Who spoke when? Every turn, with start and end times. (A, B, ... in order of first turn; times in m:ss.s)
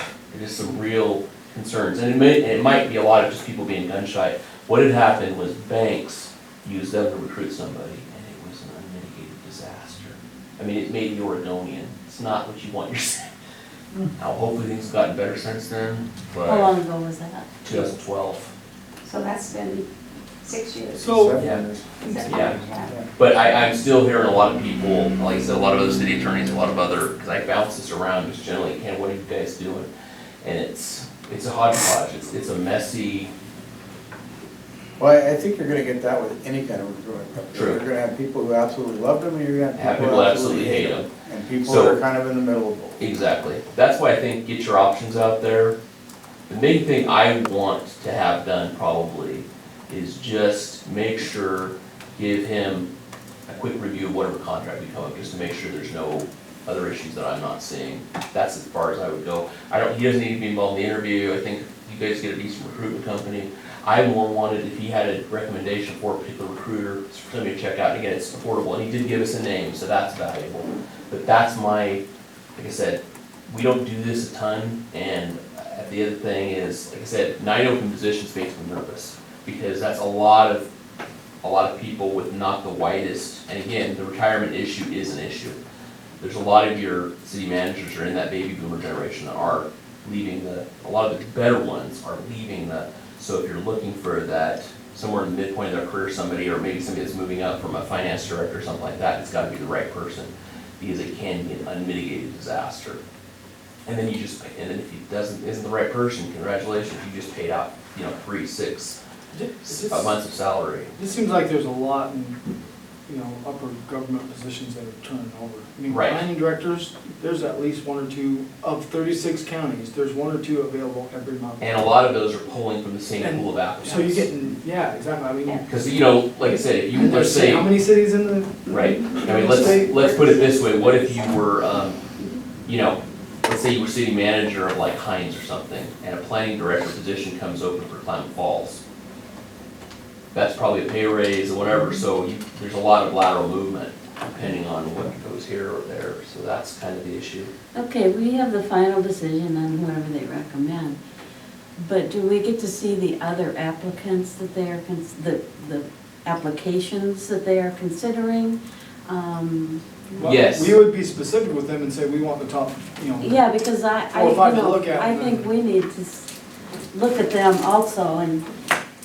0:00.3-0:13.2 A
0:14.2-0:16.1 A
0:16.4-0:17.6 B
0:17.6-0:18.5 A
0:19.0-0:19.9 C
0:20.4-0:21.4 C
0:21.0-0:21.4 D
0:21.1-0:23.1 E
0:21.4-0:21.6 A
0:22.0-0:23.0 C
0:22.2-0:22.6 A
0:23.2-0:29.9 A
0:30.4-0:33.3 A
0:35.0-0:43.0 E
0:37.5-0:37.8 A
0:39.8-0:41.1 A
0:41.6-0:42.0 A
0:43.0-0:45.8 A
0:46.5-0:52.9 A
0:53.5-1:12.0 A
1:12.6-1:20.7 A
1:21.4-1:25.6 A
1:26.2-1:43.0 A
1:43.8-1:49.0 A
1:49.3-1:50.2 D
1:49.6-1:50.9 A
1:51.0-1:52.4 D
1:53.1-2:01.9 D
1:55.9-1:56.2 A
2:01.6-2:04.3 A
2:03.2-2:05.7 D
2:05.6-2:07.7 A
2:06.4-2:10.4 D
2:08.7-2:12.0 A
2:08.7-2:09.4 C
2:10.0-2:11.4 C
2:12.6-2:18.8 A
2:20.3-2:27.5 A
2:27.7-2:31.0 B
2:31.8-2:40.4 B
2:40.1-2:43.4 D
2:40.2-2:40.7 A
2:43.2-2:46.3 B
2:44.1-2:45.5 D
2:46.9-2:48.5 B